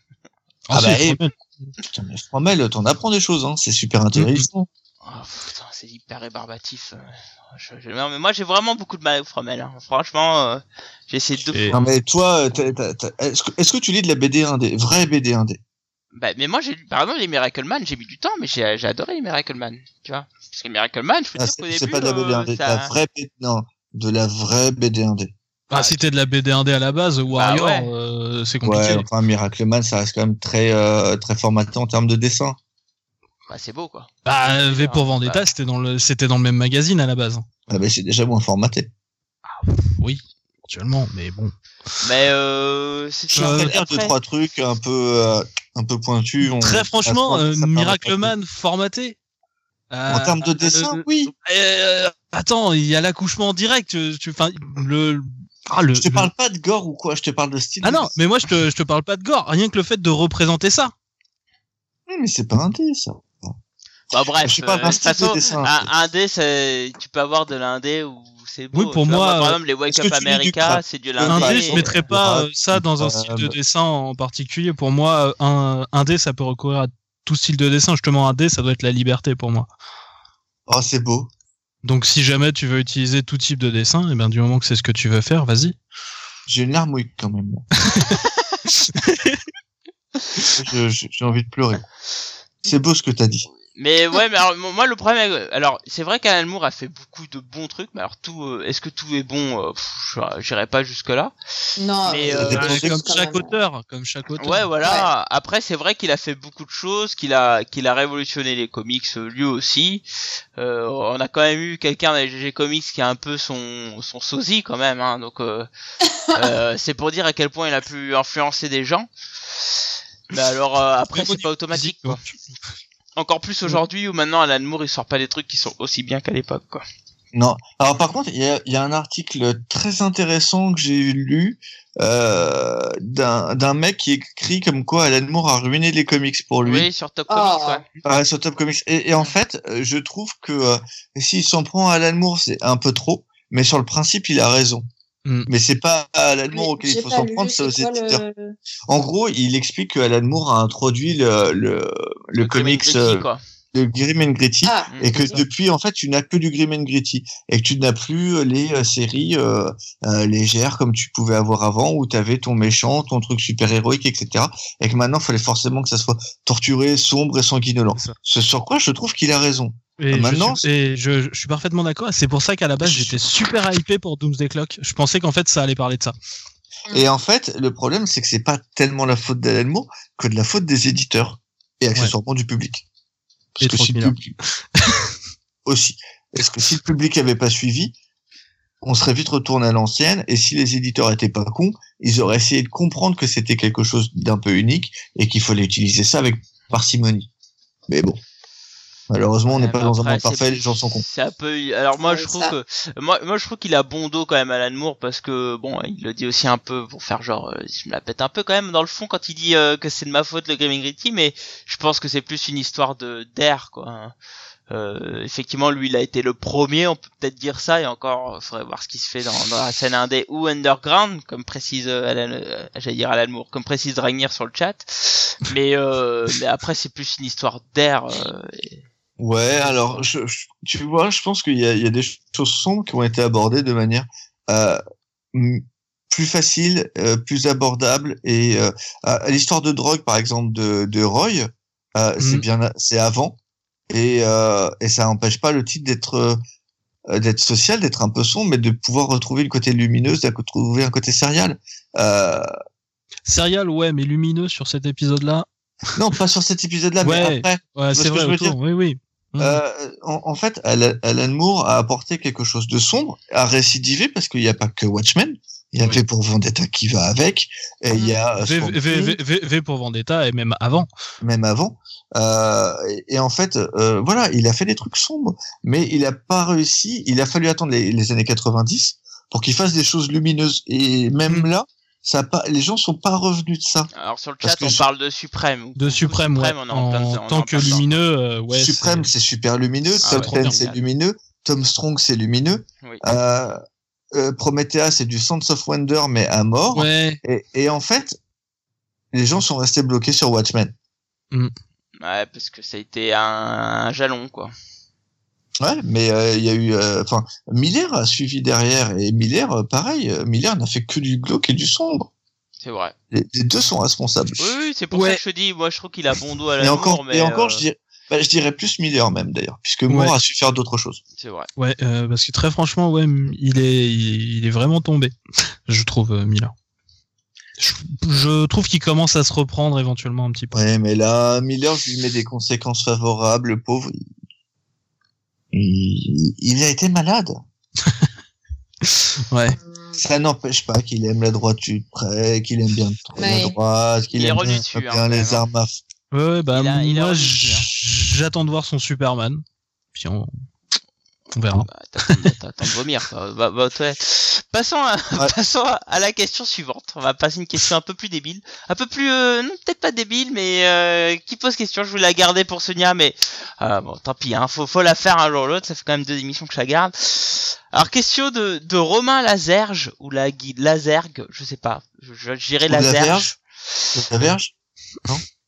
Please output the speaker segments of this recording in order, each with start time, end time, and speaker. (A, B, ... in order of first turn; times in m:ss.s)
0:00.7-0:01.7 A
0:00.7-0:01.2 B
0:01.9-0:04.7 B
0:04.2-0:04.4 A
0:05.0-0:11.9 C
0:11.5-0:11.8 A
0:11.7-0:15.6 B
0:16.1-0:22.9 C
0:21.4-0:25.3 B
0:25.7-0:29.1 A
0:25.7-0:26.0 C
0:27.3-0:27.9 C
0:28.6-0:32.6 B
0:33.5-0:35.5 C
0:34.3-0:37.4 A
0:37.7-0:38.9 B
0:39.5-0:41.5 A
0:42.0-0:44.1 C
0:43.3-0:48.3 B
0:43.3-0:43.7 A
0:46.4-0:49.2 A
0:49.9-0:56.3 A
0:50.1-0:51.3 B
0:56.0-0:58.2 B
0:57.8-1:00.9 A
1:02.1-1:03.6 B
1:04.1-1:12.0 C
1:04.4-1:05.9 B
1:08.7-1:09.6 A
1:09.9-1:13.6 B
1:11.3-1:19.7 A
1:20.7-1:21.3 B
1:21.8-1:25.8 A
1:26.5-1:27.7 B
1:27.9-1:29.4 A
1:30.6-1:31.8 B
1:32.6-1:33.5 B
1:33.7-1:41.3 C
1:41.8-1:43.5 D
1:42.0-1:42.7 C
1:42.3-1:43.0 B
1:42.5-1:44.7 A
1:44.4-1:50.0 C
1:44.8-1:45.1 D
1:50.6-1:55.7 C
1:56.3-1:59.7 C
2:00.3-2:02.2 C
2:01.1-2:02.3 A
2:03.2-2:06.8 C
2:07.3-2:16.9 B
2:16.6-2:17.9 C
2:17.3-2:17.8 D
2:18.0-2:24.9 B
2:25.5-2:28.2 B
2:26.5-2:28.6 D
2:28.9-2:50.7 B
2:32.4-2:33.4 C
2:34.6-2:35.4 D
2:34.9-2:35.2 C
2:50.0-2:56.1 A
2:52.8-2:53.2 B
2:56.9-3:02.8 B
3:03.6-3:04.4 B
3:03.6-3:04.2 A
3:04.8-3:05.1 A
3:05.7-3:08.0 B
3:08.8-3:17.3 B
3:17.9-3:18.2 B
3:19.1-3:21.0 B
3:19.5-3:34.2 C
3:22.0-3:22.6 D
3:34.7-3:48.8 C
3:49.2-3:54.8 B
3:49.6-3:50.0 C
3:55.3-4:03.4 B
4:02.2-4:02.4 A
4:03.9-4:06.4 B
4:07.1-4:12.5 B
4:13.3-4:15.5 A
4:16.0-4:18.6 B
4:17.0-4:19.6 A
4:19.4-4:29.2 B
4:28.4-4:30.9 A
4:31.2-4:43.9 B
4:44.0-4:47.9 C
4:44.4-4:44.8 B
4:45.8-4:49.1 A
4:48.5-4:53.6 B
4:50.0-4:50.8 C
4:50.0-4:50.6 A
4:54.1-4:58.2 B
4:56.7-4:57.2 A
4:59.1-5:00.7 B
5:02.0-5:04.5 C
5:05.6-5:12.1 B
5:12.6-5:12.9 C
5:13.1-5:14.5 B
5:14.4-5:17.6 C
5:14.9-5:15.2 A
5:16.6-5:21.0 B
5:19.9-5:20.1 A
5:21.2-5:21.5 C
5:21.6-5:25.2 A
5:25.7-5:26.5 A
5:27.6-5:30.6 A
5:30.5-5:34.0 B
5:35.5-5:37.4 B
5:37.8-5:38.1 A
5:38.8-5:39.6 A
5:39.6-5:40.0 D
5:40.0-5:45.8 B
5:43.2-5:43.6 D
5:44.1-5:45.4 C
5:46.1-5:49.4 A
5:46.5-5:47.7 C
5:49.9-5:50.3 A
5:51.3-5:52.3 A
5:51.6-6:13.8 C
6:12.7-6:13.4 B
6:13.9-6:14.5 B